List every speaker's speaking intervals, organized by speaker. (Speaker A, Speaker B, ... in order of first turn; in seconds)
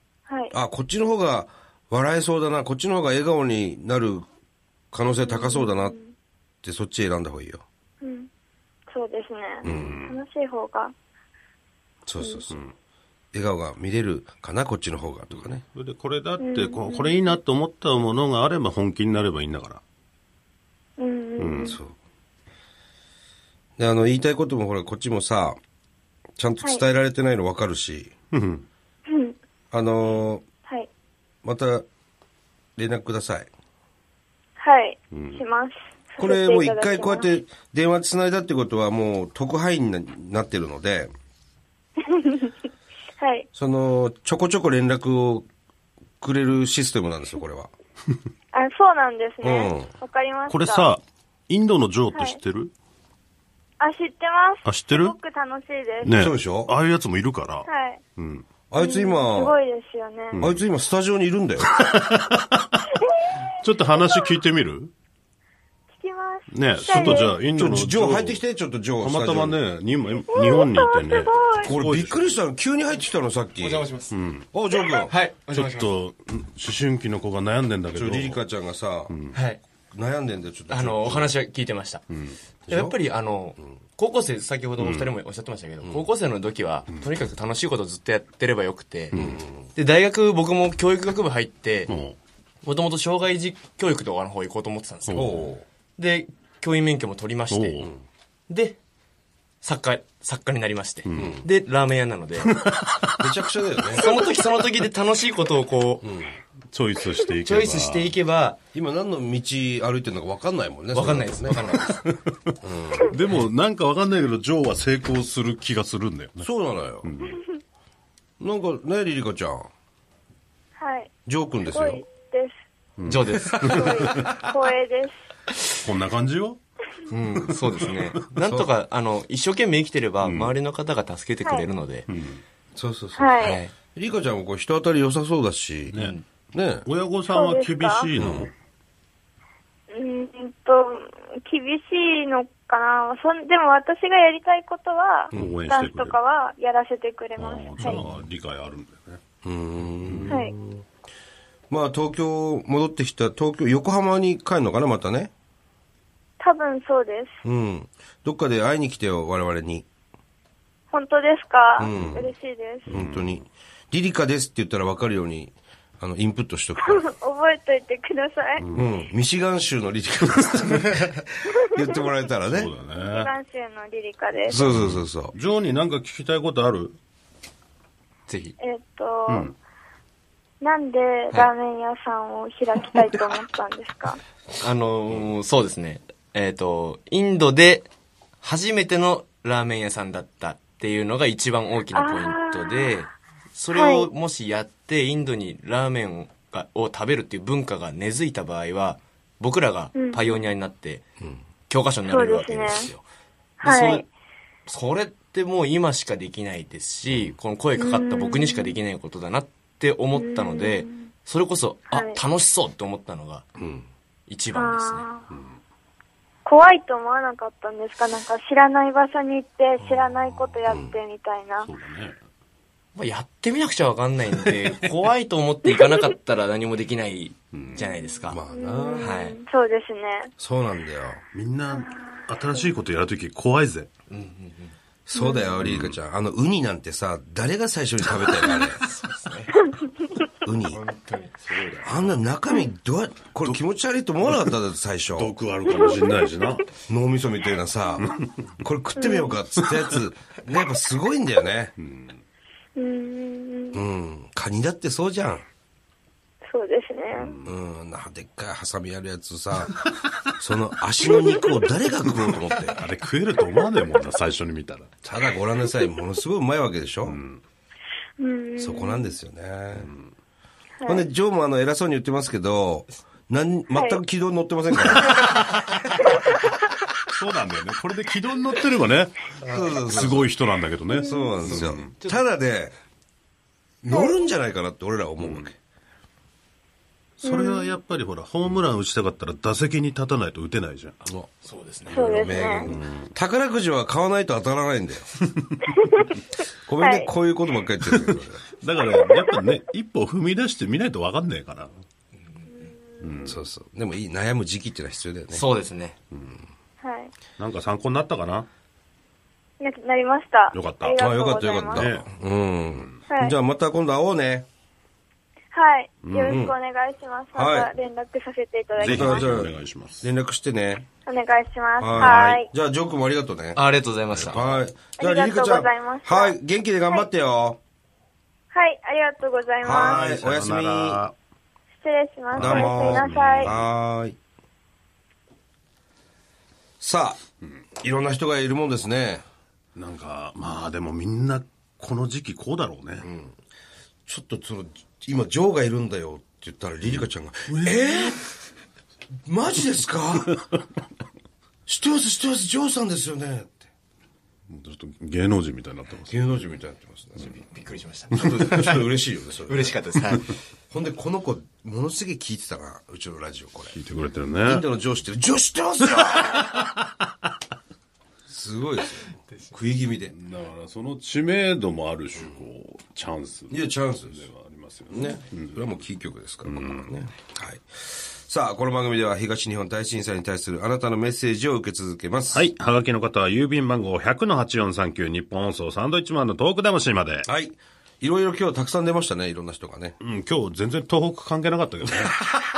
Speaker A: 0.3-0.5, 5.2-6.2, 8.0-8.3, 8.9-10.9, 12.2-12.4, 16.4-17.3, 21.0-21.8, 29.1-29.4, 34.6-37.3, 42.0-42.5, 43.2-43.5, 48.5-50.9, 52.1-52.4, 53.8-56.2, 57.7-58.0, 58.8-60.4, 63.0-64.3, 65.9-67.4, 70.3-71.8, 120.8-122.5, 123.6-125.2, 133.2-133.6, 137.3-138.1, 139.9-148.0, 150.3-150.5, 156.4-157.4, 160.9-162.9, 166.8-168.7, 173.0-174.6, 178.6-179.5, 180.6-184.2, 191.9-193.0, 193.7-194.1, 199.9-200.5, 202.1-202.9, 203.6-204.1, 207.8-208.8, 210.1-211.1, 211.9-212.2, 214.6-215.3, 216.4-221.7, 227.8-230.3, 231.7-232.7, 235.2-235.7, 245.7-246.5, 249.0-249.3, 252.8-253.8, 256.4-257.4, 261.2-261.5, 268.2-269.1, 270.8-271.1, 273.7-274.0, 280.9-281.4, 283.9-284.2, 287.2-287.8, 291.9-292.7, 296.8-297.1, 302.5-303.2, 306.8-307.1, 309.6-311.9, 313.1-313.4, 315.5-319.3, 321.1-322.5, 325.0-326.4, 328.5-330.1, 331.8-333.5
Speaker B: 0.5-4.3, 4.9-6.0, 6.6-7.6, 9.6-10.0, 12.1-12.6, 13.3-15.6, 21.6-21.9, 23.8-25.6, 26.4-28.1, 29.7-30.4, 31.4-31.9, 32.8-33.5, 36.2-41.1, 43.5-45.5, 46.2-47.7, 49.4-49.9, 56.1-56.7, 58.7-59.6, 60.4-61.8, 67.0-69.6, 71.6-73.9, 74.5-75.1, 77.9-79.1, 79.9-81.3, 82.7-83.0, 89.1-89.7, 95.1-95.7, 101.2-101.5, 103.2-104.1, 106.0-106.4, 108.7-111.6, 112.6-113.2, 116.4-117.1, 118.4-119.7, 121.3-122.0, 128.4-128.7, 132.8-136.0, 136.5-136.9, 138.2-138.5, 149.4-150.8, 151.7-155.3, 157.4-159.9, 161.8-162.3, 162.9-167.1, 168.7-172.7, 174.5-175.3, 213.6-213.9, 220.7-221.0, 228.3-229.2, 230.4-231.2, 235.1-238.8, 240.4-240.8, 241.8-245.3, 246.9-251.7, 253.7-255.4, 257.4-262.8, 265.0-267.2, 268.6-269.9, 270.9-275.3, 279.4-280.3, 280.9-282.7, 283.8-285.6, 291.9-295.1, 296.6-298.4, 303.2-305.4, 311.0-314.5, 316.3-316.6, 317.4-317.7, 318.8-320.9, 321.8-323.6, 324.1-327.6, 329.6-331.0, 332.3-334.2, 336.8-337.2, 337.8-339.2, 343.0-343.4, 344.1-348.3, 349.3-350.4, 351.7-353.7, 356.1-357.4, 358.2-359.8, 360.7-363.8, 364.4-366.6, 368.3-370.1, 373.5-374.2, 374.9-382.5, 387.2-390.0
Speaker C: 9.6-10.2, 15.3-19.8, 21.4-21.8, 28.3-28.7, 35.1-35.4, 50.5-52.7, 54.7-55.2, 56.0-58.5, 60.3-60.6, 61.6-62.9, 63.5-64.9, 66.5-68.4, 69.0-72.4, 74.1-74.5, 75.5-78.4, 79.1-79.4, 82.1-82.4, 84.8-85.1, 89.1-89.4, 91.9-92.2, 95.1-95.5, 97.5-97.9, 101.1-101.4, 102.4-103.3, 106.7-108.2, 111.0-116.5, 117.0-117.4, 123.0-124.3, 125.8-126.6, 127.5-128.2, 130.2-130.5, 132.1-132.4, 135.9-136.2, 136.8-138.5, 145.3-146.2, 147.4-149.2, 149.8-150.4, 161.9-162.3, 162.9-163.4, 168.6-168.9, 172.5-173.3, 174.5-177.0, 179.3-179.5, 207.1-207.3, 221.6-222.2, 227.5-227.8, 231.3-233.9, 235.6-236.0, 241.5-241.9, 244.2-244.5, 245.2-246.7, 248.1-248.6, 249.6-250.0, 251.8-252.2, 257.2-257.6, 262.7-264.9, 267.1-267.4, 269.8-270.1, 277.1-281.9, 285.2-285.5, 287.2-291.1, 292.1-293.1, 297.9-301.7, 303.0-303.4, 306.1-306.4, 307.4-308.5, 310.5-311.0, 311.8-312.1, 316.1-316.4, 318.8-320.1, 321.9-322.4, 324.1-324.5, 329.6-331.2, 332.4-333.7, 339.8-343.1, 346.9-348.2, 350.3-350.6, 354.5-356.2, 363.7-364.7, 370.1-375.7, 376.4-376.9, 382.3-387.3, 390.0-392.2
Speaker D: 73.6-74.2, 75.1-75.9, 79.3-79.6, 80.7-82.0, 82.7-89.2, 89.8-91.9, 92.6-95.3, 96.0-97.8, 98.5-98.8, 99.6-102.6, 104.0-106.1, 107.4-108.6, 110.9-112.0, 123.1-124.5, 127.1-132.1, 133.4-133.7, 136.0-136.2, 178.3-178.6, 184.6-187.9, 188.4-201.0, 201.7-203.0, 203.6-204.1, 204.7-213.5, 214.3-215.0, 219.8-220.6, 223.0-228.4, 229.0-229.4, 234.1-234.8, 238.2-239.7, 240.7-242.0, 279.4-279.7, 281.5-282.2, 291.4-292.4, 302.2-302.7, 305.3-306.0, 323.6-324.6, 357.2-358.9, 359.5-360.4, 369.1-369.6